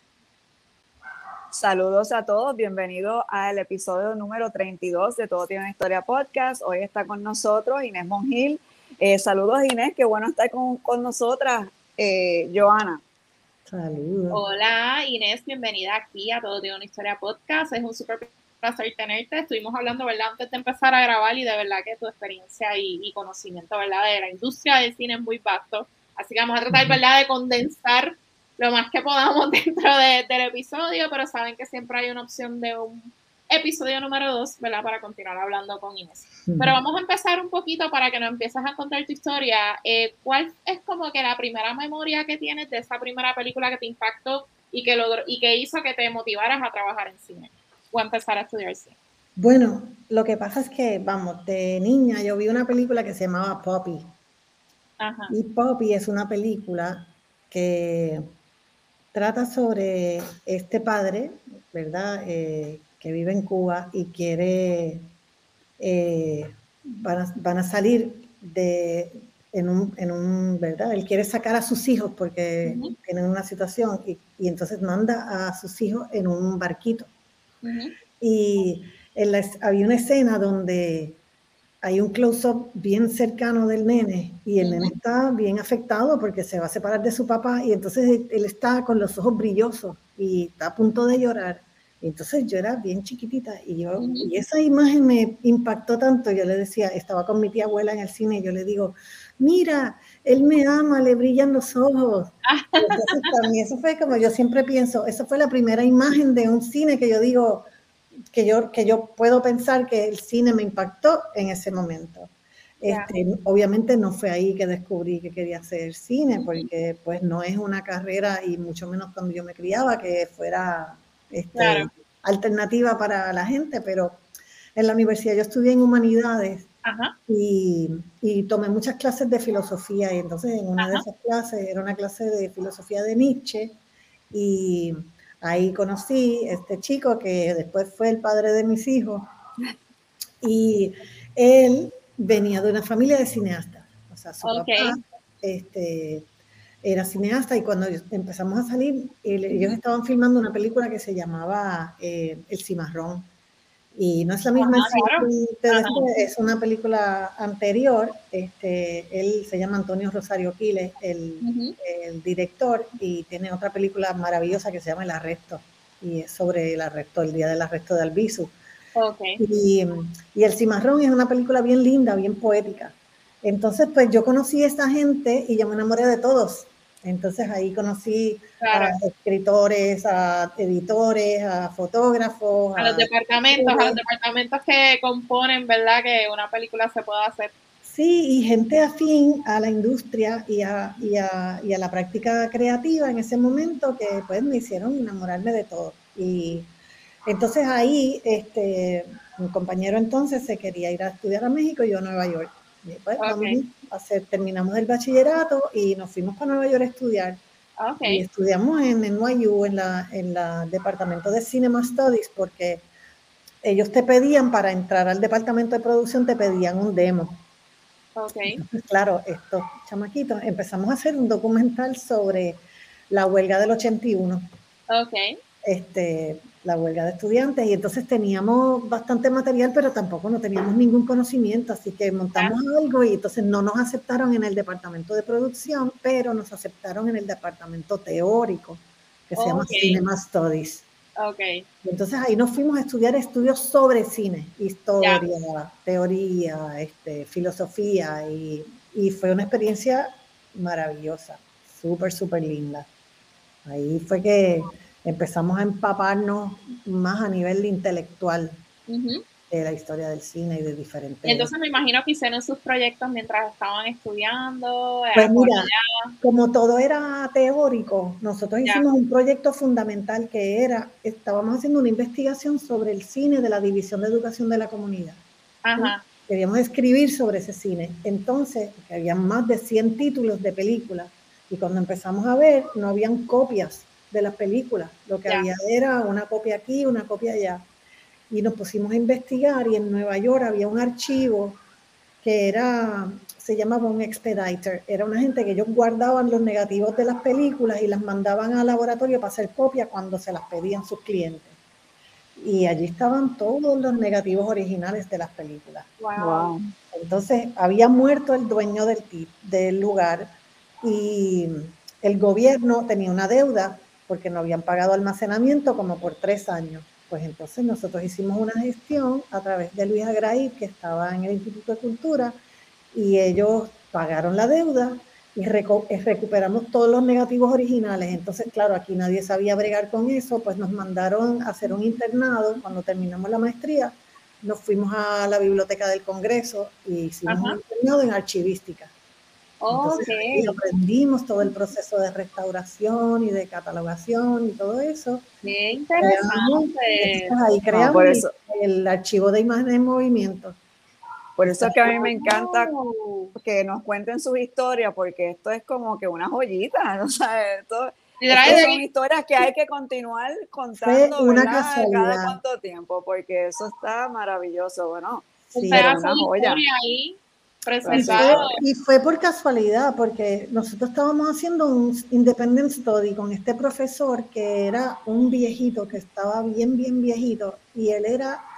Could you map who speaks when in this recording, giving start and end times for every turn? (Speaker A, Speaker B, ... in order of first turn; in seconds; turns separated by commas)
Speaker A: 1.5-13.0, Speaker B: 13.7-14.4, Speaker C: 14.3-48.9, Speaker B: 26.7-27.0, Speaker B: 36.5-36.8, Speaker B: 49.4-54.1, Speaker C: 55.0-55.3, Speaker B: 55.3-58.2, Speaker B: 59.1-65.1, Speaker B: 65.8-77.1, Speaker C: 72.6-72.9, Speaker C: 77.6-77.9, Speaker B: 78.2-81.2, Speaker B: 81.8-107.7, Speaker C: 84.6-84.9, Speaker C: 94.0-94.3, Speaker C: 102.5-103.3, Speaker B: 108.3-124.2, Speaker C: 112.8-113.1, Speaker C: 116.4-116.7, Speaker C: 121.5-121.9, Speaker B: 124.8-126.7, Speaker C: 126.8-127.1, Speaker B: 127.3-133.8, Speaker C: 130.8-131.0, Speaker B: 134.3-139.3, Speaker B: 140.4-146.3, Speaker C: 144.4-145.0, Speaker B: 146.8-153.3, Speaker C: 149.5-149.7, Speaker B: 153.9-168.5, Speaker C: 154.6-156.1, Speaker C: 161.4-161.8, Speaker C: 168.9-169.4, Speaker B: 169.4-184.0, Speaker C: 178.6-178.9, Speaker C: 182.8-187.5, Speaker B: 187.8-196.7, Speaker B: 197.2-207.4, Speaker C: 203.2-203.6, Speaker C: 207.8-208.2, Speaker B: 208.0-212.9, Speaker B: 213.6-217.4, Speaker C: 218.2-218.6, Speaker B: 218.5-224.4, Speaker C: 224.9-225.4, Speaker B: 225.6-240.8, Speaker C: 239.3-240.0, Speaker C: 241.2-241.6, Speaker B: 241.8-252.9, Speaker C: 245.0-245.2, Speaker B: 253.6-258.6, Speaker C: 258.9-259.2, Speaker B: 259.5-261.5, Speaker C: 261.2-266.1, Speaker B: 265.1-275.2, Speaker C: 275.6-276.0, Speaker B: 275.8-287.7, Speaker B: 288.3-291.6, Speaker B: 292.2-301.6, Speaker B: 302.4-305.9, Speaker C: 306.0-306.5, Speaker A: 306.2-306.7, Speaker B: 306.9-322.4, Speaker B: 322.9-338.9, Speaker C: 337.2-337.6, Speaker C: 339.6-340.6, Speaker B: 339.7-345.2, Speaker C: 345.4-347.3, Speaker B: 346.0-350.6, Speaker A: 347.7-348.3, Speaker A: 351.4-352.7, Speaker B: 351.4-352.1, Speaker C: 351.8-353.3, Speaker A: 353.3-366.6, Speaker C: 358.2-358.8, Speaker B: 358.4-358.7, Speaker B: 360.8-362.4, Speaker C: 365.5-368.6, Speaker B: 365.6-366.1, Speaker A: 367.8-368.4, Speaker B: 367.9-378.4